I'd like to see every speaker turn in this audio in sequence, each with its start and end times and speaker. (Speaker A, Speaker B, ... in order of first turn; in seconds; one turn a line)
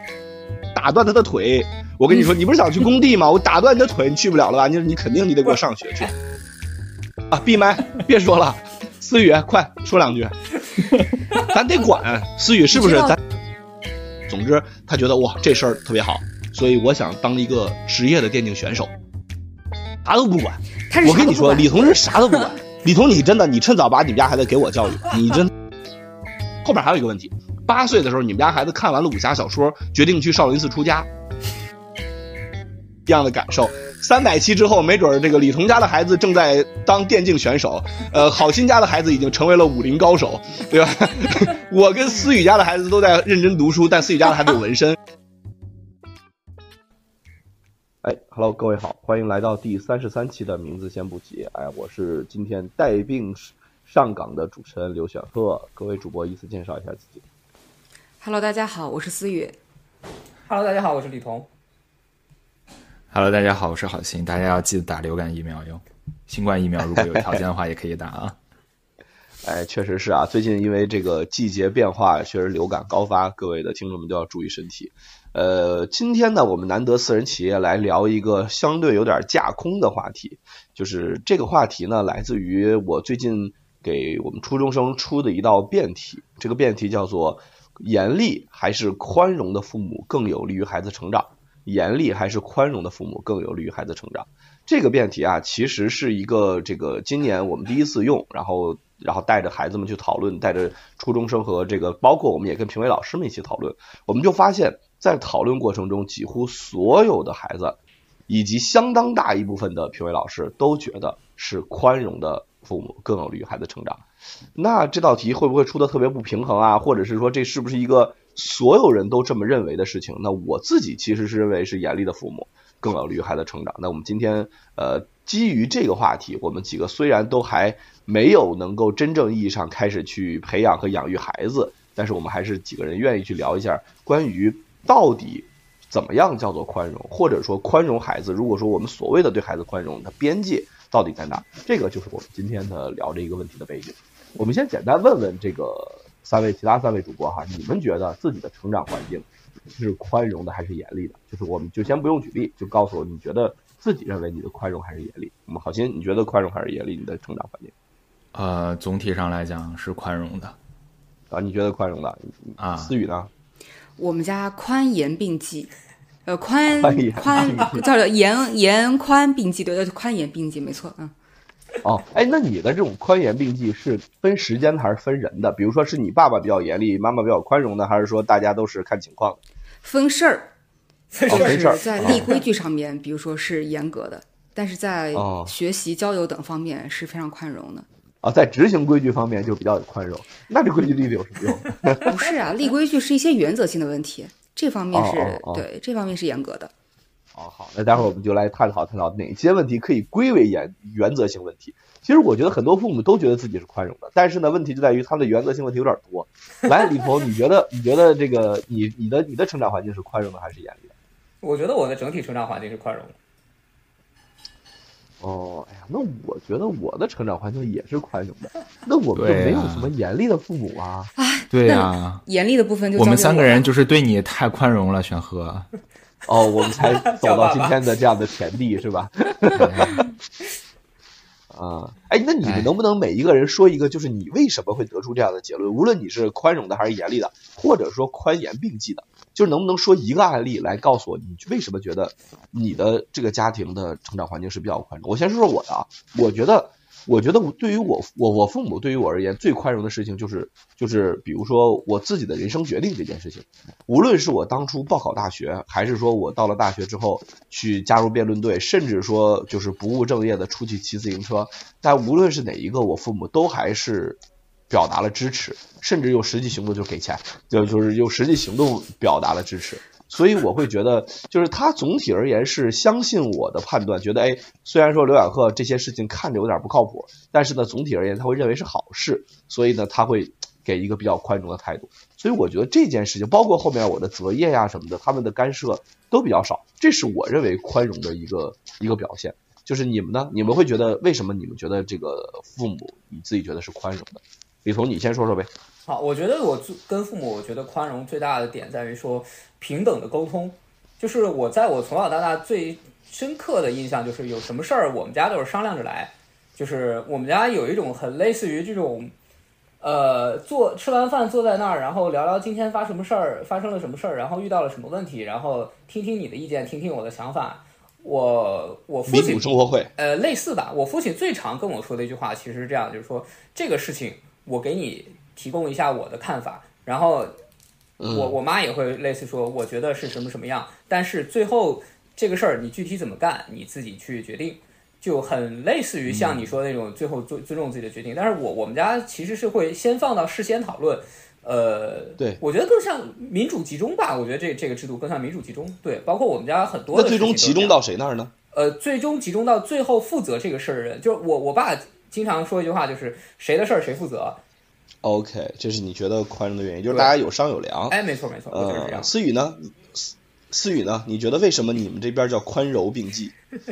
Speaker A: 0.8-6.1
Speaker A: 7.3-10.4
Speaker A: 11.4-13.2
Speaker B: 12.7-13.2
Speaker A: 14.3-18.9
Speaker A: 20.1-25.5
Speaker B: 20.9-22.5
Speaker A: 26.6-31.1
Speaker A: 33.1-45.0
Speaker A: 48.0-57.2
Speaker B: 58.2-59.6
Speaker C: 60.5-61.5
Speaker D: 63.1-68.4
Speaker A: 67.0-67.4
Speaker A: 69.4-107.8
Speaker A: 108.3-114.0
Speaker A: 114.6-157.7
Speaker D: 158.3-160.6
Speaker A: 161.3-163.3
Speaker D: 162.6-162.9
Speaker B: 164.0-165.7
Speaker B: 166.3-171.1
Speaker A: 166.8-167.8
Speaker A: 171.8-179.4
Speaker B: 179.8-180.5
Speaker C: 181.1-182.4
Speaker A: 181.3-182.3
Speaker B: 181.3-187.9
Speaker A: 185.1-185.5
Speaker A: 188.2-192.1
Speaker B: 192.1-196.7
Speaker A: 194.9-195.7
Speaker A: 197.4-210.9
Speaker C: 211.4-213.2
Speaker A: 215.2-221.1
Speaker D: 219.2-219.9
Speaker B: 221.2-223.7
Speaker D: 221.5-222.2
Speaker D: 222.9-225.7
Speaker A: 226.3-229.9
Speaker C: 227.1-227.8
Speaker D: 229.6-230.0
Speaker A: 231.5-295.5
Speaker D: 232.4-232.7
Speaker C: 295.9-309.1
Speaker C: 309.8-327.3
Speaker A: 319.1-319.9
Speaker A: 328.0-328.4
Speaker C: 328.1-347.8
Speaker A: 346.9-348.3
Speaker C: 348.5-354.4
Speaker A: 355.0-358.0
Speaker C: 357.9-359.1
Speaker A: 358.5-363.3